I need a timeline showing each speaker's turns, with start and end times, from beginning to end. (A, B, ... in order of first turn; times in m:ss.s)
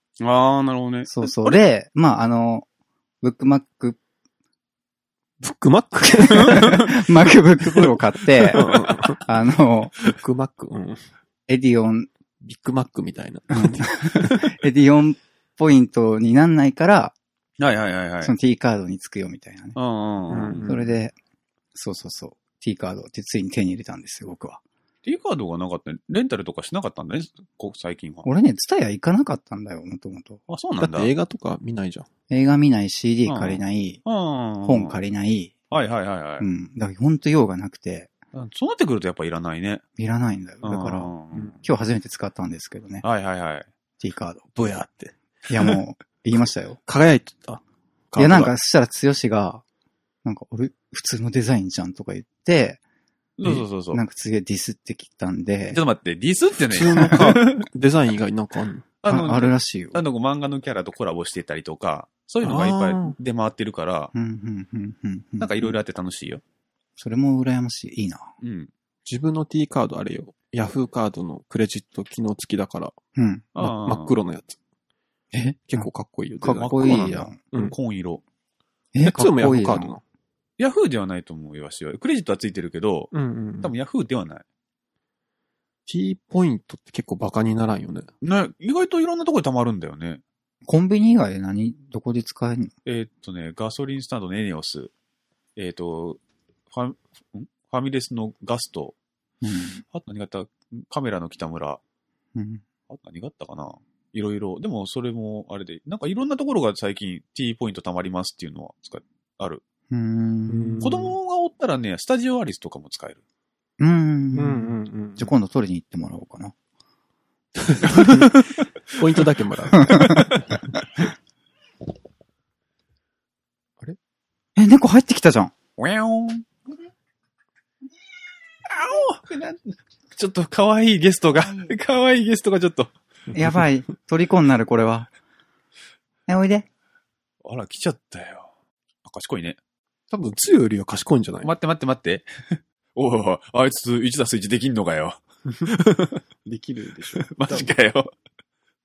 0:00.2-0:01.6 A
0:01.1-0:02.7 B
0:03.2-0:04.0 B
0:05.4-0:07.0 C
0:06.3-0:06.8 A
0:06.3-0:10.0 B
0:08.4-0:09.2 C
0:08.6-0:09.1 A
0:10.0-0:11.0 C
0:11.5-0:12.1 B
0:12.4-0:14.6 C
0:13.5-0:17.2 B
0:17.6-0:18.4 A
0:18.2-0:19.8 B
0:19.8-0:20.7 A
0:20.3-0:21.0 C
0:20.7-0:21.2 B
0:21.7-0:24.6 B
0:25.0-0:28.3 A
0:28.2-0:30.4 B
0:30.5-0:31.1 A
0:30.8-0:32.1 C
0:32.3-0:34.0 B
0:33.3-0:35.0 A
0:34.6-0:35.6 B
0:35.7-0:36.5 A
0:36.4-0:38.1 B
0:38.3-0:39.8 A
0:40.0-0:43.0 B
0:40.6-0:41.6 A
0:43.0-0:43.7 A
0:44.0-0:44.5 B
0:44.6-0:45.2 C
0:45.5-0:46.8 B
0:46.9-0:48.5 C
0:48.2-0:49.6 B
0:50.2-0:52.8 B
0:53.4-0:54.0 A
0:53.9-0:55.8 B
0:55.7-0:57.7 A
0:56.7-0:58.9 C
0:59.0-1:04.1 A
0:59.1-1:00.0 B
1:02.4-1:03.2 C
1:04.1-1:05.8 B
1:05.4-1:06.4 A
1:07.0-1:08.3 B
1:08.4-1:08.7 A
1:09.1-1:13.0 C
1:13.2-1:13.5 B
1:13.6-1:14.2 A
1:13.6-1:14.6 C
1:15.3-1:15.9 B
1:15.7-1:17.8 C
1:16.4-1:17.4 B
1:16.6-1:18.2 A
1:18.9-1:20.0 B
1:19.0-1:20.0 C
1:20.6-1:24.4 A
1:23.1-1:23.7 C
1:25.9-1:28.1 C
1:28.2-1:30.2 A
1:30.7-1:32.7 B
1:32.8-1:34.9 A
1:35.6-1:36.2 A
1:36.7-1:39.0 A
1:39.4-1:39.8 B
1:39.9-1:41.8 A
1:42.4-1:42.6 B
1:42.9-1:49.6 A
1:49.9-1:50.8 B
1:50.5-1:51.2 C
1:50.8-1:53.2 A
1:53.8-1:56.6 B
1:54.4-1:55.4 C
1:57.6-1:58.4 C
1:57.9-1:58.5 A
1:58.9-2:00.6 C
1:59.9-2:00.2 B
2:04.6-2:05.5 B
2:05.8-2:06.5 A
2:08.7-2:12.9 A
2:13.3-2:15.1 B
2:16.3-2:16.7 B
2:17.4-2:18.5 A
2:19.0-2:19.6 A
2:20.1-2:21.5 C
2:21.4-2:26.2 A
2:26.4-2:27.7 C
2:27.2-2:28.1 A